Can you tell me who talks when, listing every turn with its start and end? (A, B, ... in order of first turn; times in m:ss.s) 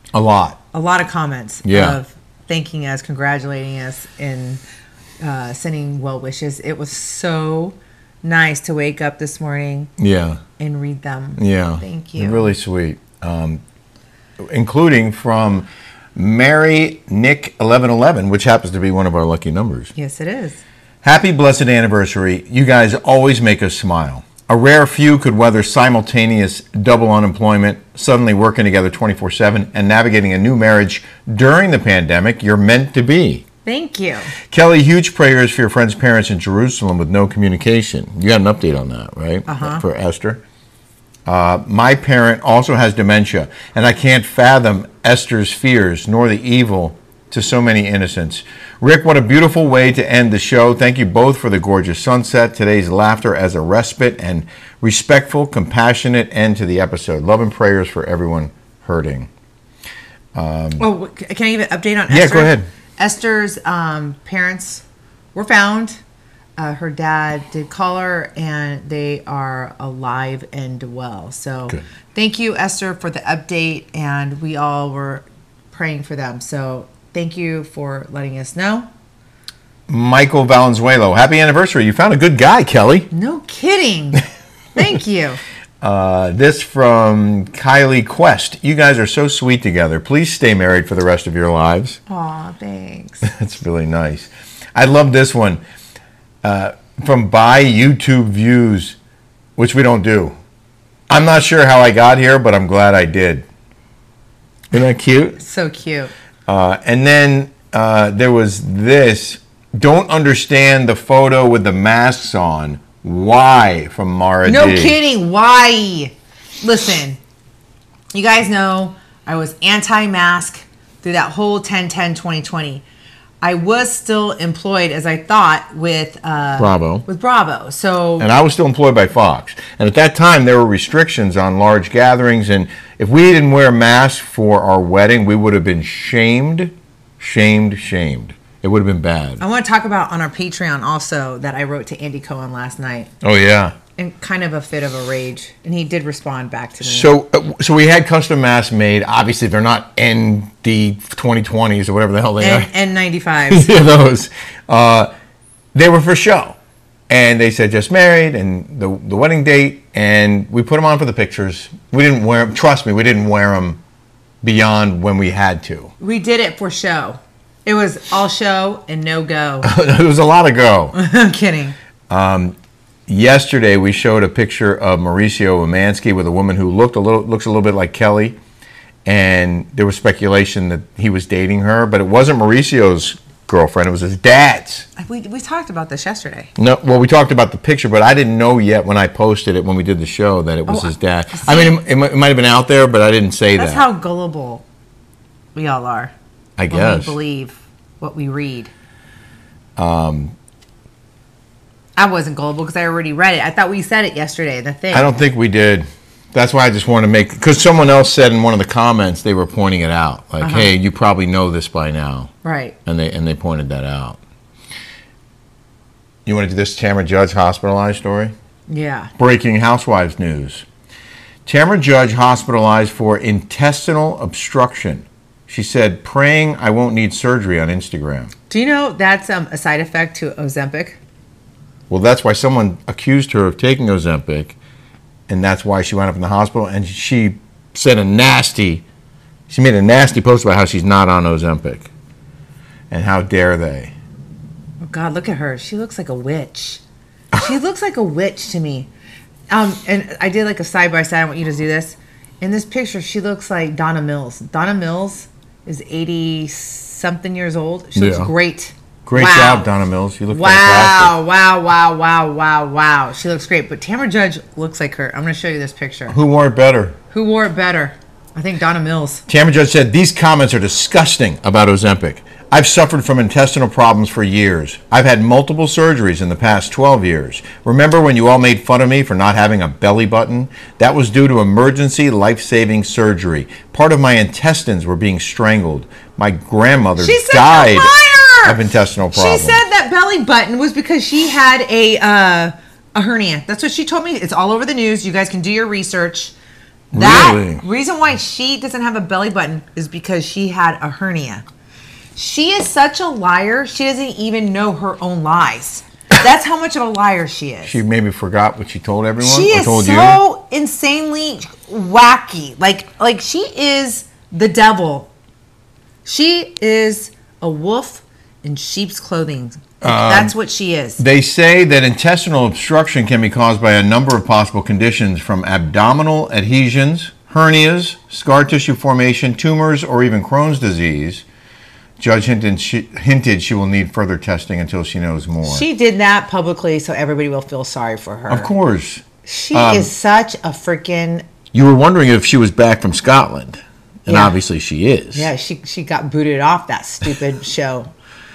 0:00.1-0:00.6 A
0:00.7-0:04.6 B
0:01.6-0:02.0 A
0:05.2-0:09.9 B
0:10.0-0:10.4 A
0:10.6-0:12.5 B
0:11.4-0:13.6 A
0:14.4-0:19.9 A
0:19.9-0:20.6 B
0:21.0-0:33.4 A
0:33.6-0:34.3 B
0:34.5-0:40.4 A
0:39.5-0:39.8 B
0:41.2-0:59.3 A
1:00.3-1:00.9 A
1:00.8-1:04.8 B
1:02.1-1:02.6 A
1:05.3-1:06.0 B
1:06.6-1:18.9 B
1:19.9-1:23.1 A
1:23.1-1:24.2 B
1:24.7-1:25.4 B
1:25.8-1:32.0 A
1:32.1-1:33.3 B
1:33.2-1:35.6 A
1:36.4-1:39.0 A
1:39.6-1:40.4 A
1:41.1-1:43.4 A
1:44.7-1:45.4 A
1:45.4-1:46.1 B
1:46.5-1:55.0 A
1:54.4-1:57.2 B
1:58.1-2:02.8 B
2:03.4-2:08.3 B
2:06.6-2:07.0 A
2:08.2-2:19.4 A
2:19.4-2:23.1 B
2:23.2-2:23.8 A
2:24.0-2:27.1 B
2:26.8-2:32.7 A
2:32.4-2:33.7 B
2:33.5-2:35.1 A
2:35.7-2:36.6 A
2:37.1-2:43.8 A
2:44.4-2:45.9 A
2:46.0-2:49.7 B
2:49.6-2:51.0 A
2:50.9-2:51.7 B
2:52.1-2:52.6 A
2:53.1-2:58.4 A
2:59.0-3:04.9 A
3:05.0-3:06.5 B
3:06.6-3:13.8 A
3:10.7-3:11.8 B
3:13.6-3:14.6 B
3:15.5-3:16.1 B
3:16.6-3:17.2 A
3:16.7-3:18.7 B
3:19.8-3:20.3 A
3:22.0-3:25.1 B
3:24.9-3:32.3 A
3:30.4-3:30.7 B
3:32.4-3:32.8 B
3:32.8-3:34.2 A
3:36.2-3:38.3 A
3:38.7-3:39.1 B
3:39.2-3:40.6 A
3:41.4-3:48.3 A
3:48.5-3:51.0 B
3:51.9-3:54.6 A
3:55.3-3:58.8 A
3:59.5-4:01.9 A
4:02.9-4:03.9 A
4:04.8-4:06.8 B
4:07.3-4:08.9 B
4:09.5-4:19.7 B
4:18.0-4:18.3 A
4:19.0-4:21.2 A
4:20.3-4:26.2 B
4:26.1-4:27.0 A
4:27.1-4:29.2 B
4:29.3-4:47.9 A
4:47.0-4:56.3 B
4:48.4-4:49.6 A
4:56.9-4:57.6 A
4:56.9-5:01.4 B
5:02.2-5:07.8 B
5:07.6-5:10.2 A
5:09.2-5:15.1 B
5:16.0-5:21.0 B
5:19.8-5:20.3 A
5:21.0-5:31.2 A
5:32.0-5:35.6 A
5:35.4-5:38.5 B
5:38.3-5:39.9 A
5:39.2-5:41.2 B
5:41.5-5:45.3 A
5:44.1-5:44.4 B
5:45.1-5:47.9 B